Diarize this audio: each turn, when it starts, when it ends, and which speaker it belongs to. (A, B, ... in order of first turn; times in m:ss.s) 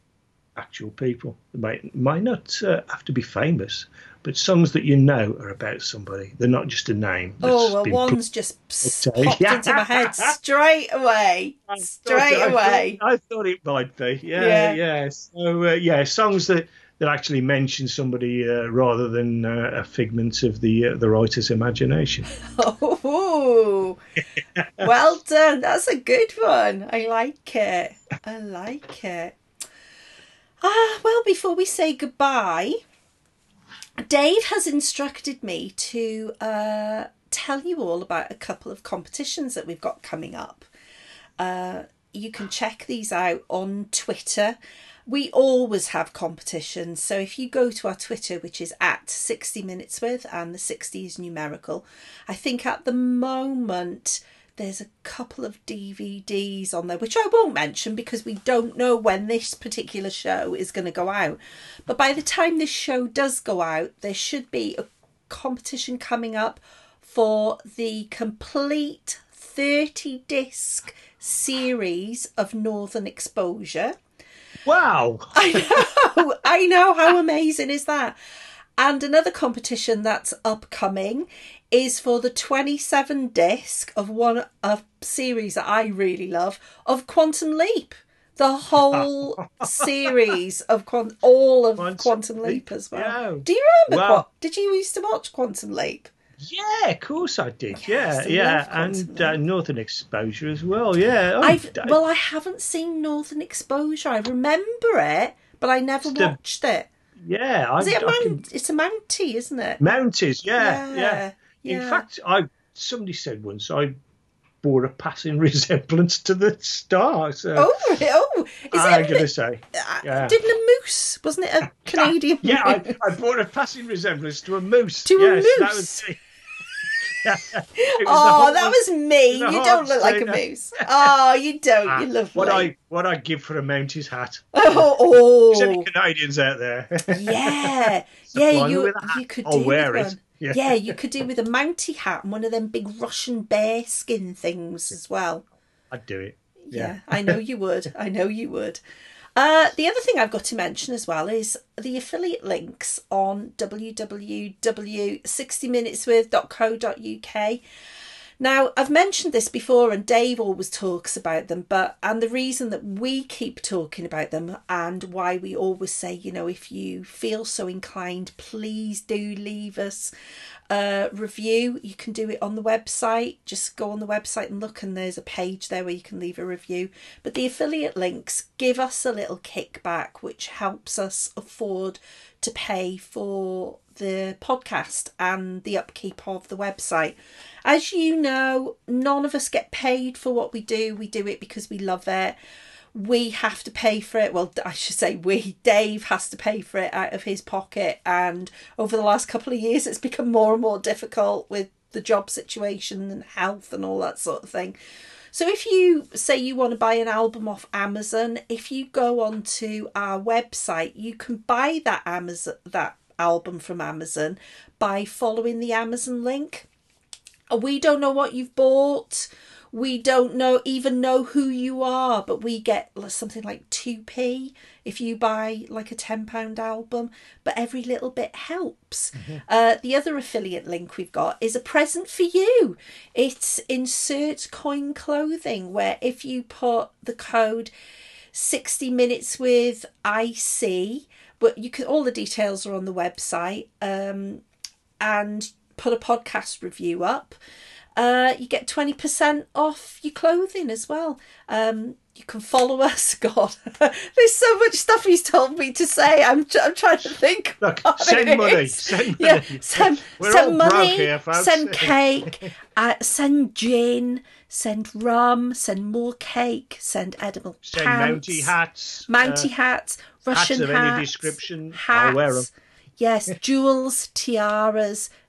0:00.6-0:08.2 A
0:07.4-0:13.0 B
0:08.8-0:10.3 A
0:11.7-0:22.3 A
0:14.4-0:14.8 B
0:22.4-0:24.0 B
0:24.6-0:24.9 A
0:24.8-0:29.4 B
0:30.6-0:32.8 B
0:34.0-0:40.7 B
0:41.4-1:14.0 B
1:14.6-1:15.9 A
1:15.3-1:18.2 B
1:18.8-1:36.1 B
1:28.8-1:30.4 A
1:31.8-1:34.2 A
1:36.4-1:42.0 A
1:37.7-1:39.4 B
1:41.4-1:46.9 B
1:46.0-1:46.4 A
1:47.2-1:48.4 A
1:47.8-1:49.8 B
1:49.8-1:54.0 A
1:50.6-1:52.0 B
1:54.6-1:58.0 A
1:57.6-2:02.9 B
1:58.7-2:00.4 A
2:01.9-2:06.2 A
2:05.1-2:06.0 B
2:07.0-2:08.8 A
2:07.8-2:12.7 B
2:09.3-2:11.1 A
2:11.9-2:21.0 A
2:14.6-2:15.9 B
2:17.1-2:25.4 B
2:25.9-2:27.4 A
2:26.6-2:28.8 B
2:29.4-2:37.6 B
2:38.4-2:50.1 B
2:50.7-3:12.4 B
3:12.9-3:24.8 B
3:25.3-3:36.7 B
3:37.5-3:57.7 B
3:58.3-4:04.4 B
4:05.0-4:07.4 B
4:08.0-4:28.5 B
4:17.6-4:22.3 A
4:27.6-4:29.5 A
4:29.1-4:35.1 B
4:30.3-4:32.5 A